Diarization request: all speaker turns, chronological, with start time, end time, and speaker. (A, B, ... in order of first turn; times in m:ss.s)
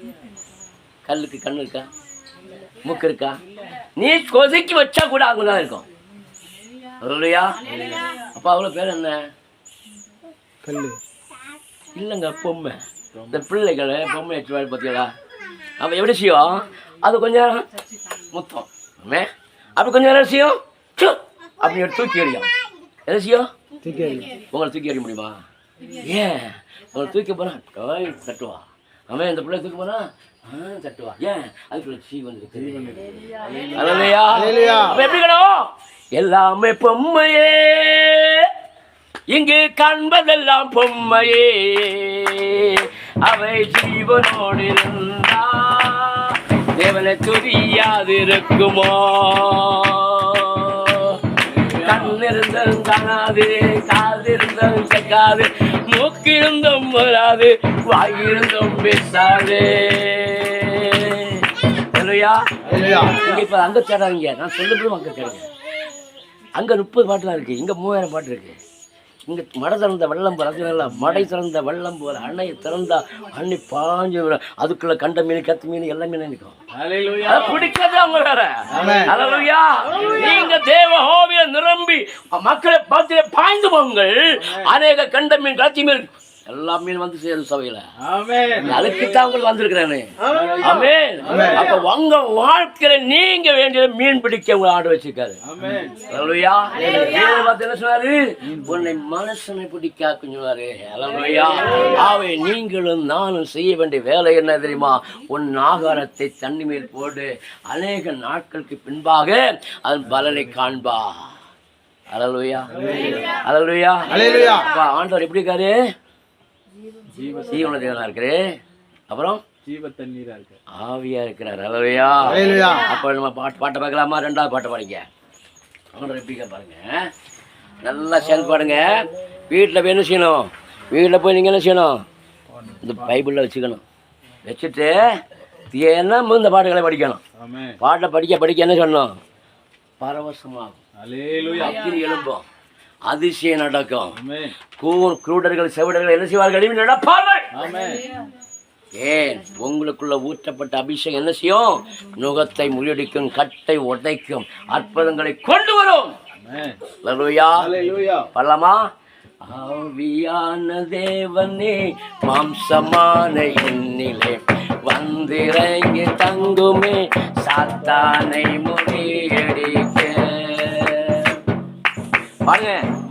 0:01.0-0:01.9 A
0:02.8-0:03.4 A
0:04.0-0:05.8 A
0:07.0-0:07.6 A
0:08.2-0:09.3 A
0:10.6-0:11.0 B
0:11.9-0:12.8 A
0:13.3-0:15.1 A
0:15.8-0:17.7 A
0:18.3-0:22.5 A
0:23.0-0:23.5 A
0:23.8-0:24.2 B
0:24.3-0:25.4 A
0:26.0-0:33.1 A
0:32.8-0:33.8 C
0:33.7-0:38.5 A
0:34.4-0:34.9 B
0:39.3-1:05.5 A
0:51.5-0:52.1 C
1:02.7-1:03.4 C
1:02.7-1:03.1 B
1:06.6-1:08.6 A
1:09.3-1:16.6 A
1:16.7-1:17.7 C
1:17.2-1:27.9 A
1:18.7-1:19.4 C
1:18.8-1:19.1 B
1:24.4-1:24.7 C
1:28.0-1:29.1 C
1:28.6-1:35.4 A
1:30.2-1:30.9 C
1:31.3-1:31.6 B
1:35.4-1:36.0 C
1:36.1-1:51.3 A
1:52.1-1:55.8 A
1:52.7-1:53.2 C
1:54.1-1:54.6 B
1:57.1-1:57.7 C
1:57.4-1:58.4 A
1:59.1-1:59.4 A
1:59.6-2:00.6 C
2:00.7-2:05.1 A
2:02.4-2:02.8 B
2:05.9-2:07.1 A
2:07.8-2:12.0 A
2:12.8-2:13.8 A
2:14.4-2:15.0 A
2:15.7-2:17.2 A
2:17.4-2:17.8 C
2:17.8-2:19.1 A
2:20.0-2:20.8 A
2:21.0-2:21.7 C
2:21.6-2:22.4 A
2:23.0-2:24.2 A
2:24.2-2:24.5 C
2:24.8-2:27.5 A
2:27.5-2:28.1 C
2:29.0-2:36.1 A
2:36.4-2:36.8 C
2:37.0-2:37.7 A
2:37.6-2:38.3 C
2:38.3-2:38.8 A
2:39.4-2:51.4 A
2:52.4-2:52.8 A